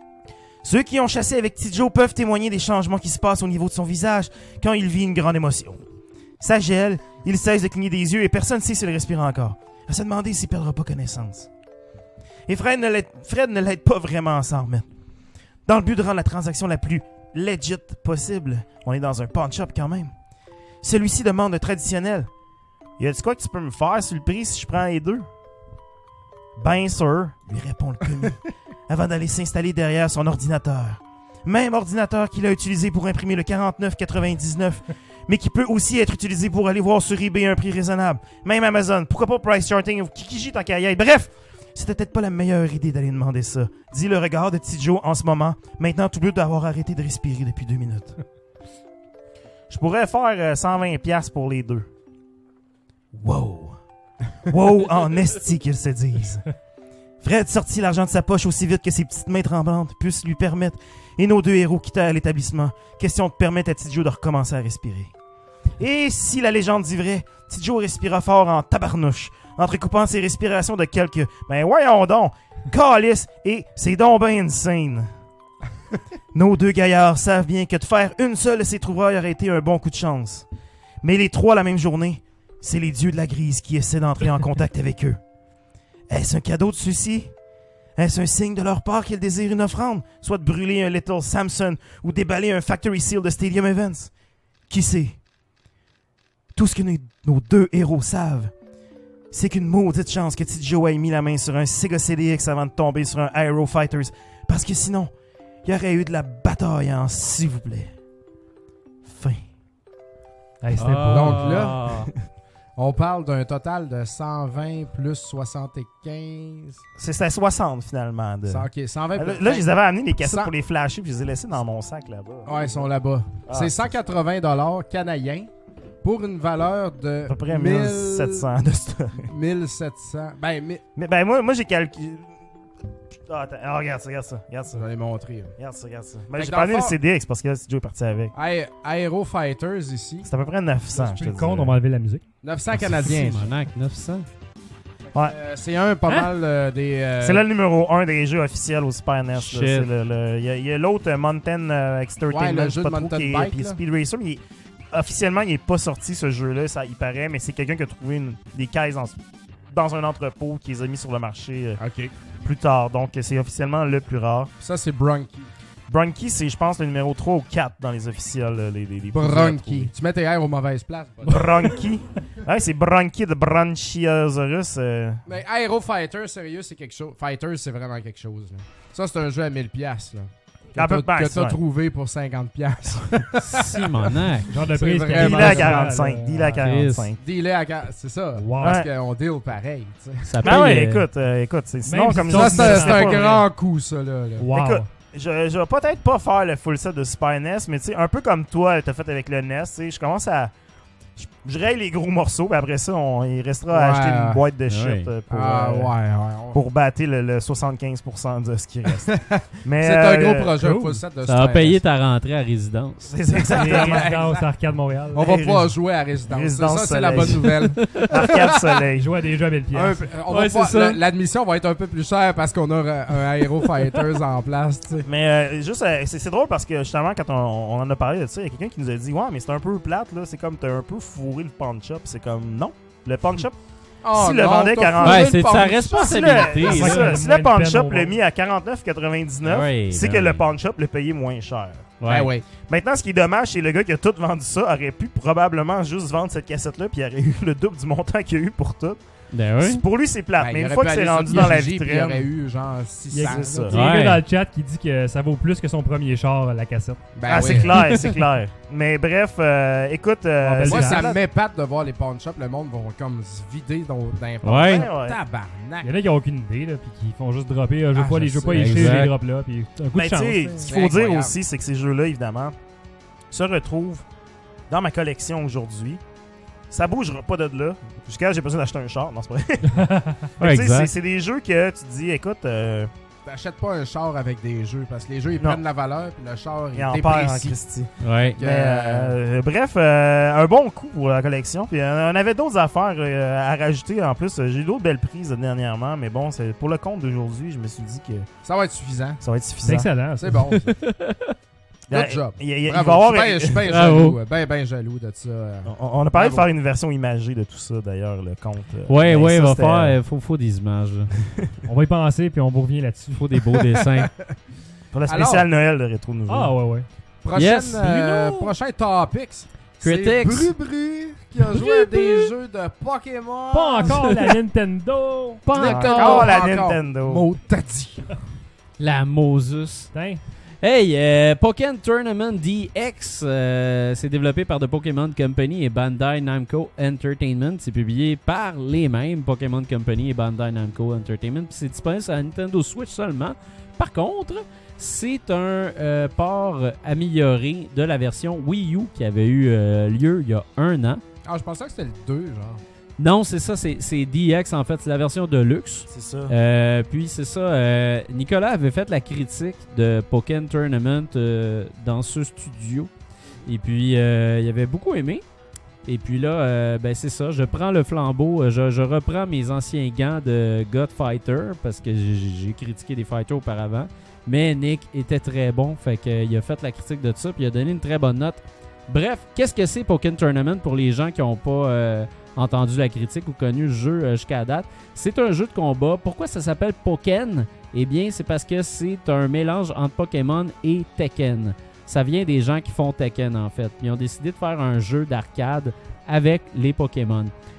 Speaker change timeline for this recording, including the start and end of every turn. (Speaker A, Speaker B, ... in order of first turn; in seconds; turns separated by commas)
Speaker A: 0.6-5.8, Speaker A: 6.4-11.5, Speaker A: 12.5-14.8, Speaker A: 15.7-20.1, Speaker A: 20.8-22.3, Speaker A: 23.0-25.2, Speaker A: 26.6-48.2, Speaker A: 49.7-51.9, Speaker A: 53.1-53.8, Speaker A: 54.5-56.4, Speaker A: 57.2-65.1, Speaker A: 65.8-75.1, Speaker A: 76.3-80.5, Speaker A: 81.0-85.2, Speaker A: 86.1-87.3, Speaker A: 88.0-94.1, Speaker A: 94.7-95.2, Speaker A: 96.5-98.5, Speaker A: 99.3-105.1, Speaker A: 105.6-107.9, Speaker A: 109.0-109.4, Speaker B: 110.6-111.6, Speaker C: 110.7-112.1, Speaker D: 111.1-111.8, Speaker D: 112.8-116.8, Speaker A: 117.0-122.9, Speaker D: 118.5-119.7, Speaker D: 120.2-120.5, Speaker D: 122.5-125.5, Speaker A: 123.5-123.9, Speaker D: 126.0-128.5, Speaker A: 127.3-129.2, Speaker D: 129.1-130.8, Speaker A: 131.0-132.3, Speaker A: 133.3-134.8, Speaker D: 134.7-135.5, Speaker A: 135.6-138.3, Speaker D: 136.3-136.9, Speaker D: 138.3-140.3, Speaker A: 140.2-141.8, Speaker B: 140.9-142.2, Speaker D: 142.4-143.5, Speaker C: 142.7-144.3, Speaker D: 145.1-147.4, Speaker A: 147.2-154.4, Speaker C: 149.3-149.9, Speaker D: 152.3-153.8, Speaker A: 154.9-159.2, Speaker A: 159.7-161.8, Speaker D: 161.8-162.1, Speaker A: 162.4-164.5, Speaker D: 164.6-165.5, Speaker A: 165.9-169.9, Speaker D: 169.1-171.5, Speaker A: 171.2-175.2, Speaker D: 175.2-183.8, Speaker A: 180.8-181.6, Speaker C: 183.4-184.5, Speaker B: 184.5-186.6, Speaker D: 184.7-185.8, Speaker A: 185.1-187.2, Speaker C: 186.6-187.1, Speaker D: 187.2-190.3, Speaker B: 188.4-188.8, Speaker A: 188.6-188.9, Speaker C: 190.2-191.1, Speaker A: 190.4-193.3, Speaker B: 191.8-193.4, Speaker D: 192.3-194.5, Speaker B: 194.4-194.9, Speaker A: 194.5-200.5, Speaker A: 201.2-205.9, Speaker D: 203.7-204.4, Speaker C: 204.7-205.1, Speaker D: 205.3-206.6, Speaker A: 206.5-210.6, Speaker D: 209.1-211.8, Speaker B: 210.6-211.0, Speaker C: 211.2-213.1, Speaker A: 213.1-214.1, Speaker D: 213.5-214.5, Speaker B: 213.5-215.3, Speaker D: 215.1-218.6, Speaker A: 215.2-215.7, Speaker A: 216.3-219.1, Speaker C: 217.8-218.1, Speaker B: 218.9-220.1, Speaker D: 219.7-225.1, Speaker C: 220.3-221.0, Speaker A: 225.0-233.5, Speaker D: 234.0-236.7, Speaker A: 234.1-241.9, Speaker C: 235.0-237.2, Speaker B: 236.6-238.1, Speaker C: 239.4-240.4, Speaker C: 242.0-242.3, Speaker D: 242.1-242.4, Speaker A: 242.6-249.0, Speaker C: 249.3-249.8, Speaker A: 249.6-252.3, Speaker D: 250.4-253.7, Speaker B: 253.1-257.0, Speaker A: 253.2-253.8, Speaker C: 253.7-254.2, Speaker D: 257.1-257.7, Speaker A: 257.3-261.2, Speaker B: 260.4-261.1, Speaker D: 260.6-265.9, Speaker C: 264.4-264.9, Speaker A: 264.6-265.2, Speaker B: 265.8-270.6, Speaker D: 267.9-269.0, Speaker C: 268.5-269.1, Speaker A: 269.9-272.5, Speaker D: 270.6-271.3, Speaker A: 273.3-274.0, Speaker A: 274.7-276.0, Speaker A: 276.7-279.8, Speaker B: 279.7-280.2, Speaker A: 280.4-282.9, Speaker C: 280.4-280.9, Speaker D: 283.2-287.6, Speaker A: 286.7-298.3, Speaker C: 288.0-288.4, Speaker D: 288.4-289.2, Speaker D: 298.4-299.2, Speaker A: 299.2-299.9, Speaker B: 299.6-300.4, Speaker D: 300.2-300.7, Speaker C: 300.6-301.3, Speaker A: 301.9-303.6, Speaker D: 301.9-306.4, Speaker C: 303.6-304.2, Speaker A: 305.6-310.0, Speaker C: 308.9-311.1, Speaker B: 311.7-313.2, Speaker C: 313.1-314.1, Speaker D: 314.0-314.3, Speaker A: 314.9-316.5, Speaker D: 315.1-315.4, Speaker B: 316.3-316.9, Speaker D: 317.2-324.3, Speaker C: 317.3-318.5, Speaker C: 319.8-320.5, Speaker B: 323.5-325.4, Speaker C: 325.4-326.3, Speaker D: 325.5-328.1, Speaker A: 325.6-327.2, Speaker C: 328.8-329.9, Speaker B: 329.9-330.2, Speaker C: 330.6-351.0, Speaker D: 351.2-352.6, Speaker C: 353.0-362.9, Speaker A: 355.9-356.3, Speaker C: 363.4-365.2, Speaker C: 365.8-397.3